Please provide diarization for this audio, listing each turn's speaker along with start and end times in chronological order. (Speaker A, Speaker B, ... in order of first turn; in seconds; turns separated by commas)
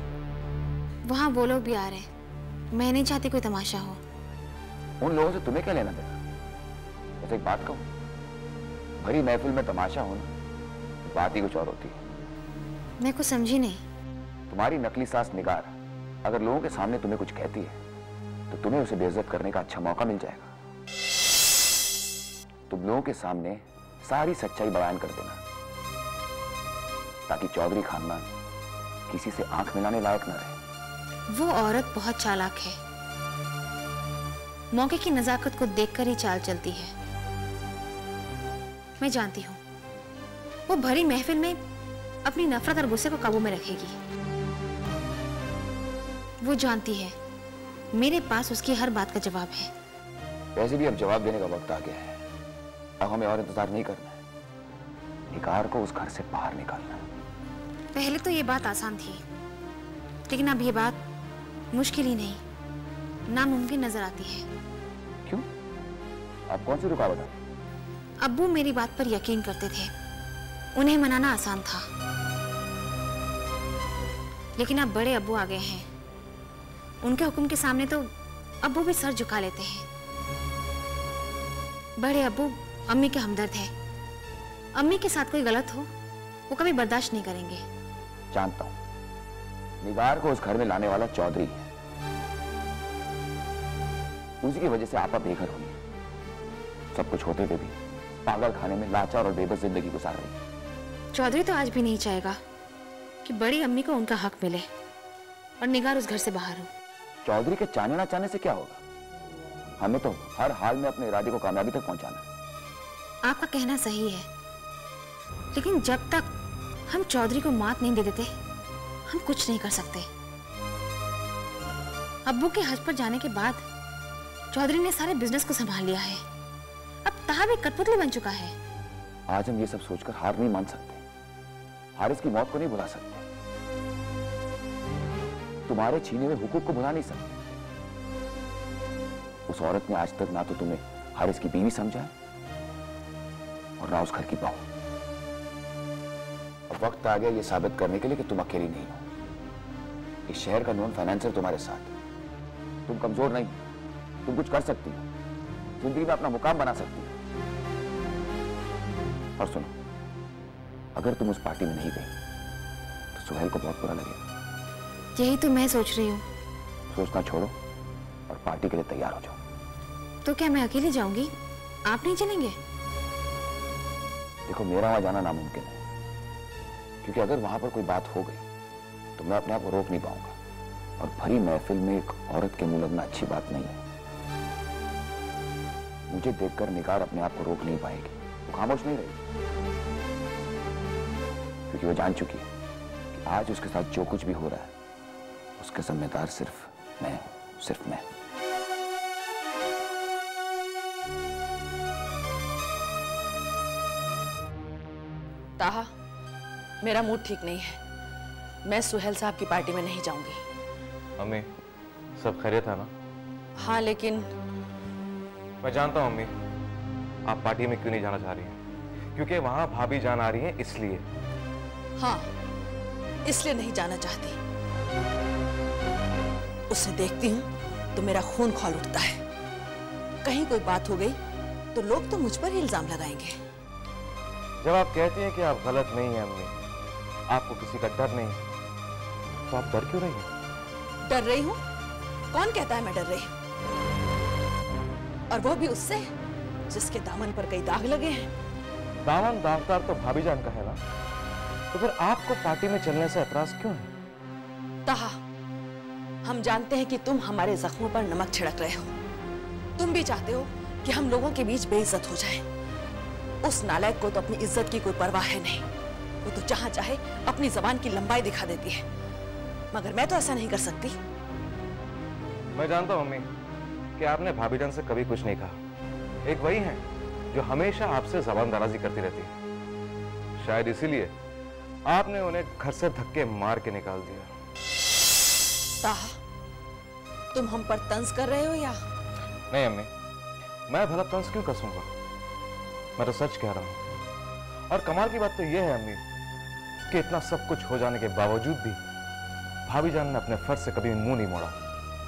Speaker A: 1.1-2.1, Speaker A: 2.7-4.0, Speaker B: 5.0-6.2, Speaker B: 7.2-7.8, Speaker B: 9.0-10.3, Speaker B: 11.1-12.0, Speaker A: 13.0-13.8, Speaker B: 14.5-17.8, Speaker B: 18.5-20.5, Speaker B: 22.7-25.4, Speaker B: 27.3-28.3, Speaker B: 29.1-30.6, Speaker A: 31.3-32.8, Speaker A: 34.7-36.9, Speaker A: 39.0-39.6, Speaker A: 40.7-41.6, Speaker A: 42.3-44.0, Speaker A: 46.4-47.1, Speaker A: 47.9-49.7, Speaker B: 50.5-52.2, Speaker B: 53.0-54.2, Speaker B: 55.3-57.0, Speaker A: 58.0-59.2, Speaker A: 60.3-61.0, Speaker A: 61.7-62.4, Speaker A: 63.3-64.5, Speaker B: 66.5-67.4, Speaker A: 68.2-69.9, Speaker A: 70.8-71.9, Speaker A: 74.6-75.9, Speaker A: 77.0-78.1, Speaker A: 78.6-79.9, Speaker A: 82.0-83.7, Speaker A: 84.8-85.9, Speaker A: 86.5-87.6, Speaker B: 88.3-88.8, Speaker B: 89.8-91.7, Speaker B: 94.4-95.8, Speaker B: 96.9-100.4, Speaker A: 101.1-102.4, Speaker A: 103.2-104.7, Speaker A: 105.6-106.7, Speaker B: 107.2-108.8, Speaker B: 109.8-112.2, Speaker A: 113.3-114.3, Speaker A: 115.5-116.2, Speaker A: 116.9-118.3, Speaker A: 119.1-120.1, Speaker A: 122.3-123.6, Speaker A: 124.5-126.2, Speaker A: 127.0-128.6, Speaker B: 129.3-131.0, Speaker B: 132.0-133.2, Speaker B: 135.7-137.4, Speaker B: 139.5-142.1, Speaker B: 143.8-144.6, Speaker B: 146.7-149.0, Speaker B: 150.3-151.9, Speaker B: 152.9-153.6, Speaker B: 154.2-155.1, Speaker B: 155.8-157.1, Speaker B: 159.4-159.7, Speaker B: 160.9-162.1, Speaker B: 163.2-164.2, Speaker A: 165.2-166.2, Speaker B: 166.9-167.6, Speaker B: 168.3-169.4, Speaker A: 170.2-171.3, Speaker A: 171.9-172.6, Speaker B: 174.5-175.8, Speaker B: 177.0-178.4, Speaker B: 179.2-180.4, Speaker B: 181.0-183.8, Speaker B: 186.1-189.2, Speaker B: 191.7-192.5, Speaker B: 193.1-194.7, Speaker B: 195.6-198.1, Speaker C: 205.6-205.9, Speaker C: 206.8-207.8, Speaker C: 208.7-210.4, Speaker D: 211.2-211.5, Speaker D: 212.2-212.9, Speaker C: 213.6-214.3, Speaker D: 215.6-216.3, Speaker D: 217.3-218.6, Speaker D: 219.2-221.1, Speaker C: 223.3-224.4, Speaker C: 226.7-229.2, Speaker C: 230.3-231.2, Speaker C: 231.8-233.4, Speaker D: 234.6-236.5, Speaker D: 237.3-238.4, Speaker D: 239.5-240.3, Speaker C: 241.1-241.6, Speaker C: 242.3-243.3, Speaker C: 245.3-246.1, Speaker C: 246.7-248.3, Speaker D: 249.0-250.8, Speaker D: 251.7-253.9, Speaker C: 254.9-255.1, Speaker C: 256.3-258.9, Speaker C: 259.8-262.4, Speaker C: 263.4-265.6, Speaker C: 266.2-268.8, Speaker C: 269.7-271.0, Speaker D: 272.6-273.3, Speaker D: 274.0-275.6, Speaker D: 276.2-279.3, Speaker D: 280.4-281.1, Speaker D: 281.9-284.3, Speaker C: 285.8-286.1, Speaker C: 287.3-288.8, Speaker D: 289.5-289.9, Speaker D: 290.7-291.9, Speaker D: 293.0-293.8, Speaker D: 294.7-296.0, Speaker D: 296.9-298.8, Speaker D: 299.7-301.6